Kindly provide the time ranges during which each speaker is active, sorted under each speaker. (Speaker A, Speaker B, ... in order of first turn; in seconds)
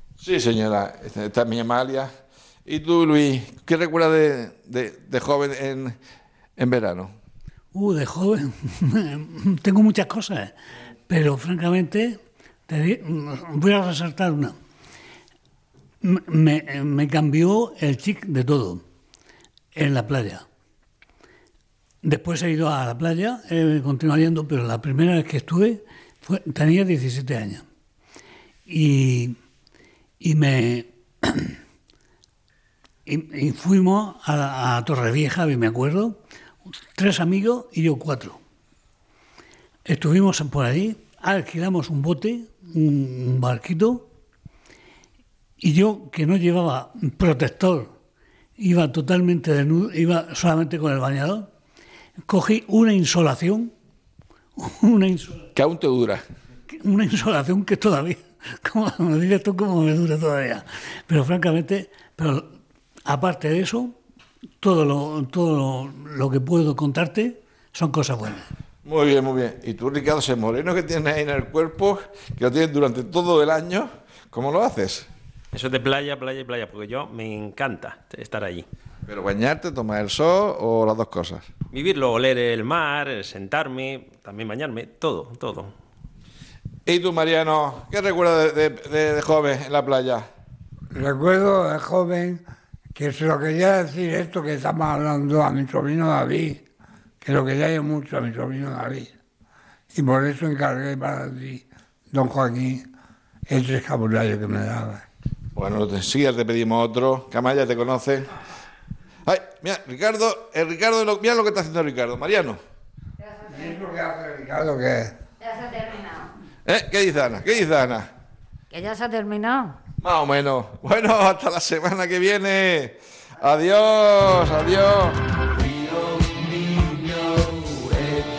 Speaker A: 0.2-2.1, 2.6-6.0, 6.6-7.1, 55.5-56.2, 68.8-75.1, 79.1-81.5, 86.8-90.2, 105.5-108.3, 109.2-112.6, 116.7-118.1, 120.0-125.2
Speaker B: 7.7-10.5, 11.1-14.5, 16.0-18.8, 19.7-20.4, 22.0-27.6, 28.7-29.3, 30.2-31.6, 33.0-36.2, 36.9-38.4, 39.9-44.1, 45.6-47.9, 48.6-51.5, 52.3-53.7, 54.5-55.4, 56.8-62.5, 63.0-63.9, 64.6-68.5
Speaker C: 75.5-78.7, 81.7-85.7
Speaker D: 90.9-92.4, 93.0-96.6, 97.2-99.1, 99.9-102.8, 103.5-105.0, 113.5-115.1
Speaker E: 115.4-116.3, 118.7-119.8